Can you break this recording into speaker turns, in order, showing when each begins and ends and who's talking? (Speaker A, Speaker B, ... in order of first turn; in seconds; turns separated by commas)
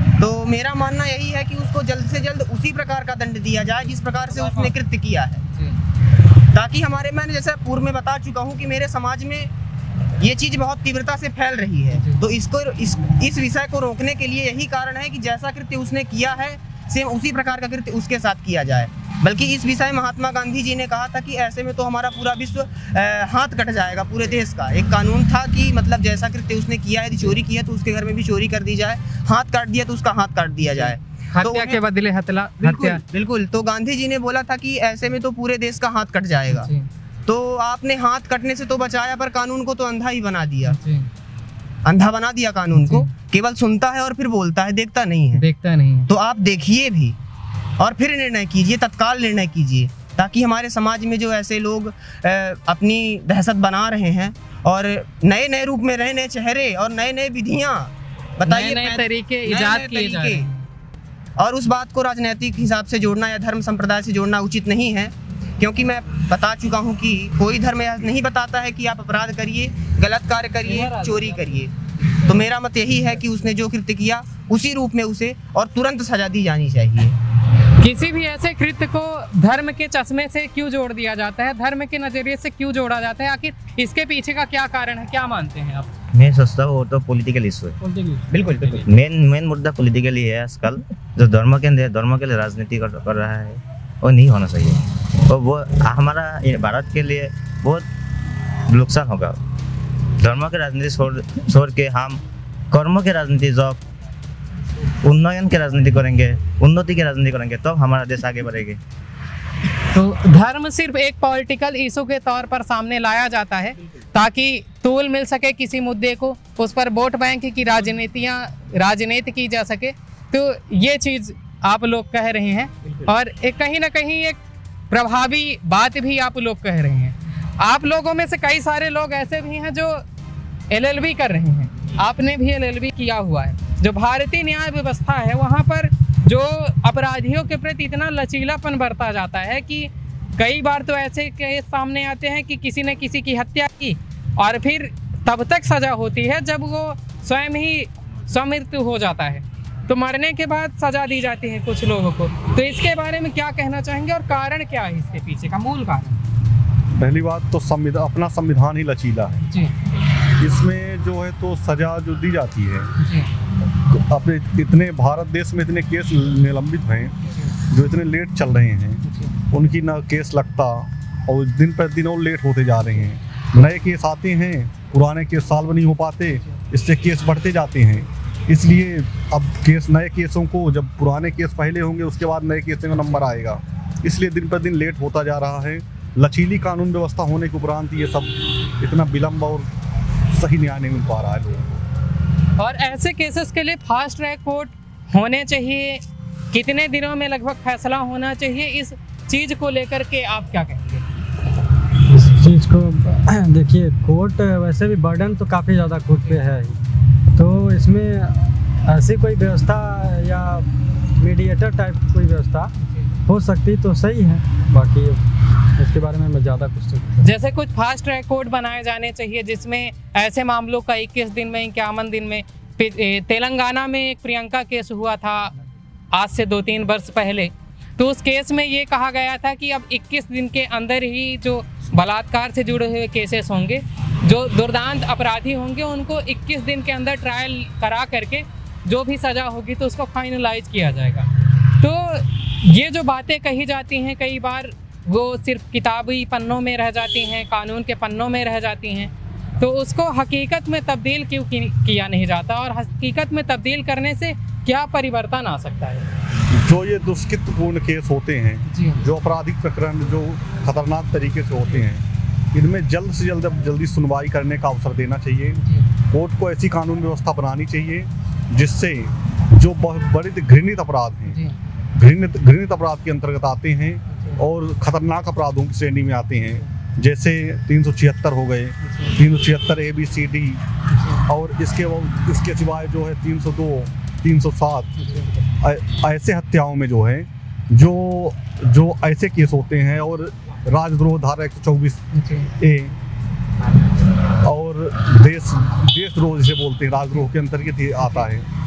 Speaker A: 0.2-5.4, Speaker B: 4.3-4.7, Speaker B: 5.5-5.8, Speaker A: 6.5-9.5, Speaker A: 10.2-31.8, Speaker B: 11.9-12.3, Speaker B: 30.7-33.0, Speaker A: 32.6-36.7, Speaker B: 36.5-36.9, Speaker A: 37.3-40.8, Speaker B: 40.6-41.1, Speaker A: 41.9-45.5, Speaker B: 42.7-43.1, Speaker B: 45.3-46.1, Speaker A: 46.1-47.2, Speaker A: 47.8-60.5, Speaker B: 58.5-60.7, Speaker A: 61.4-71.7, Speaker B: 70.6-72.4, Speaker A: 72.3-77.2, Speaker B: 77.8-85.9, Speaker C: 86.1-87.8, Speaker D: 87.8-88.8, Speaker C: 88.3-97.8, Speaker C: 98.7-99.4, Speaker C: 100.2-102.2, Speaker C: 102.7-103.8, Speaker C: 105.0-108.8, Speaker B: 109.9-124.4, Speaker B: 124.9-130.0, Speaker B: 130.7-156.2, Speaker E: 156.9-159.4, Speaker B: 159.4-159.8, Speaker E: 160.4-162.9, Speaker B: 163.0-163.3, Speaker E: 163.9-167.2, Speaker B: 167.3-167.6, Speaker E: 167.7-169.0, Speaker B: 169.0-169.4, Speaker E: 169.5-189.7, Speaker B: 176.3-176.6, Speaker E: 190.3-191.7, Speaker B: 192.6-196.0, Speaker B: 196.5-201.1, Speaker D: 202.1-206.8, Speaker D: 207.4-210.7, Speaker D: 211.2-212.7, Speaker B: 212.8-213.2, Speaker D: 213.3-215.2, Speaker D: 215.8-217.2, Speaker B: 217.2-225.6, Speaker B: 226.1-256.1, Speaker E: 256.5-271.4, Speaker B: 258.7-259.0, Speaker B: 265.6-265.9, Speaker B: 271.3-271.6, Speaker E: 271.9-280.6, Speaker B: 274.1-274.4, Speaker B: 278.8-279.2, Speaker B: 280.9-281.2, Speaker E: 281.3-284.9, Speaker B: 285.0-285.3, Speaker E: 285.6-292.0, Speaker B: 292.1-292.5, Speaker E: 292.6-292.9, Speaker E: 294.4-298.5, Speaker B: 298.0-298.3